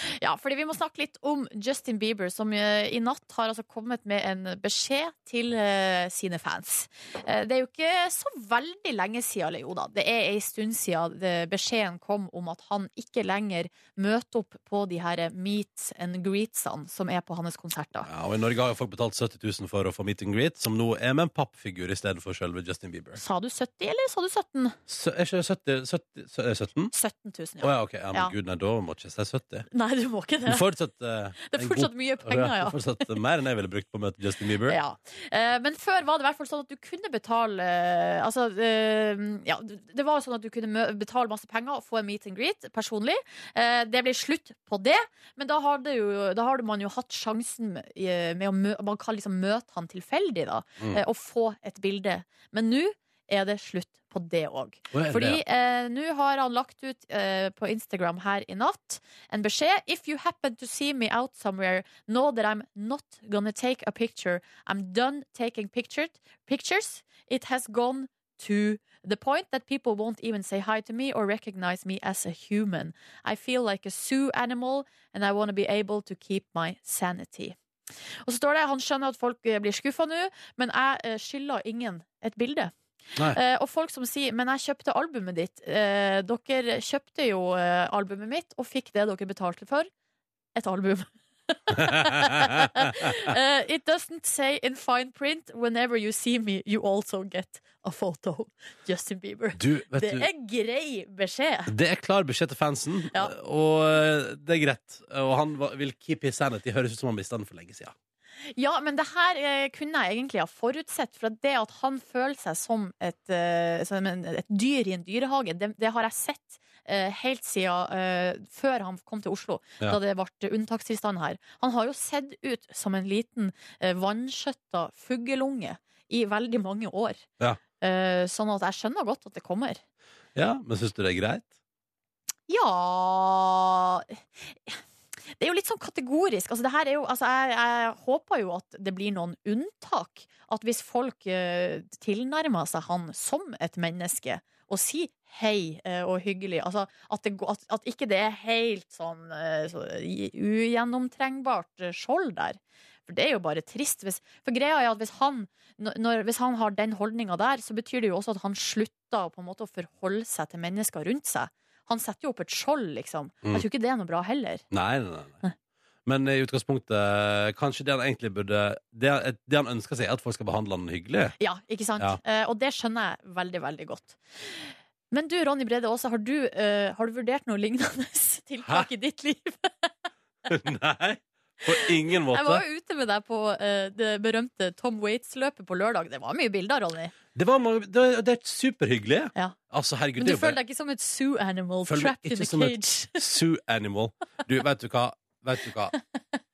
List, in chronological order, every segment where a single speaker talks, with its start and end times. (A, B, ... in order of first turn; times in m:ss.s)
0:00.2-0:18.1 A
0:18.1-0:23.2 B
0:23.2-0:24.8 A
0:24.9-0:26.9 B
0:26.9-0:28.3 A
0:27.6-0:29.6 B
0:29.7-0:30.6 A
0:30.5-0:34.8 B
0:31.5-0:32.8 A
0:34.7-1:17.6 A
0:54.9-0:55.4 B
1:18.2-1:22.7 A
1:23.3-1:29.9 A
1:30.6-1:41.7 A
1:31.8-1:32.7 B
1:39.6-1:40.3 B
1:41.7-1:47.9 B
1:48.6-2:07.2 A
2:07.8-2:09.8 A
2:10.4-2:11.5 B
2:12.5-2:14.8 A
2:15.4-2:44.6 A
2:44.7-2:45.4 B
2:46.1-2:51.4 B
2:51.4-3:00.1 A
3:00.5-3:02.6 B
3:01.7-3:07.1 A
3:07.4-3:10.6 B
3:10.2-3:13.2 A
3:11.9-3:15.9 B